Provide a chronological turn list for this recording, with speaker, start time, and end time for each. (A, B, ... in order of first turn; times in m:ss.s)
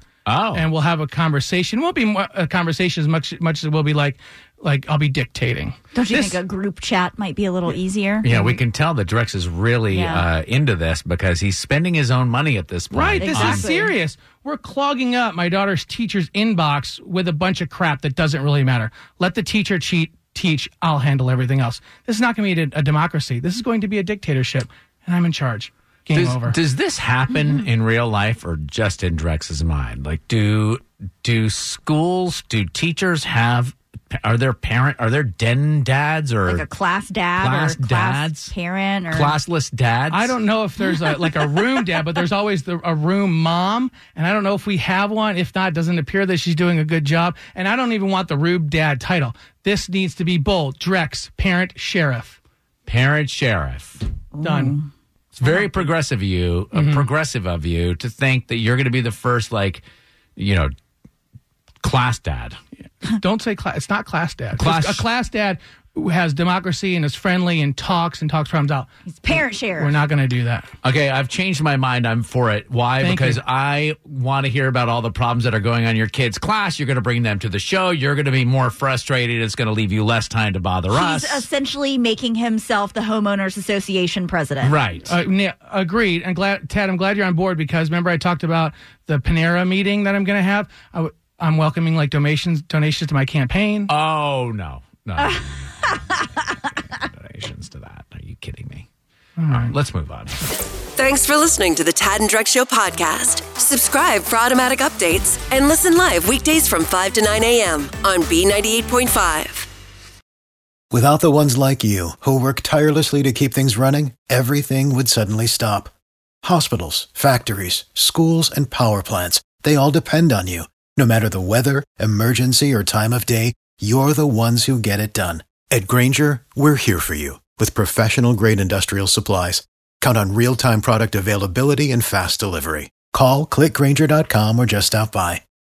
0:00.3-0:00.7 A
0:00.5-0:06.4 B
0:05.9-0:08.6 C
0:08.2-0:13.7 A
0:09.9-0:10.3 C
0:12.9-0:26.6 B
0:13.2-0:14.0 C
0:26.1-0:36.6 A
0:36.5-0:39.3 C
0:37.4-0:38.5 A
0:39.1-0:40.4 A
0:40.1-0:52.4 B
0:52.9-0:54.0 A
0:54.3-0:54.9 C
0:54.4-0:54.8 B
0:55.4-0:59.8 A
0:56.8-0:57.1 B
1:00.4-1:00.7 A
1:01.8-1:02.6 A
1:03.0-1:10.7 B
1:04.6-1:05.0 A
1:09.1-1:10.0 C
1:10.8-1:21.4 A
1:13.0-1:13.4 B
1:20.9-1:24.7 C
1:24.6-1:25.1 A
1:25.1-1:33.9 B
1:33.9-1:38.9 A
1:39.4-1:39.8 B
1:39.5-1:40.4 A
1:41.0-1:49.7 D
1:50.9-1:55.9 E
1:56.4-2:15.4 E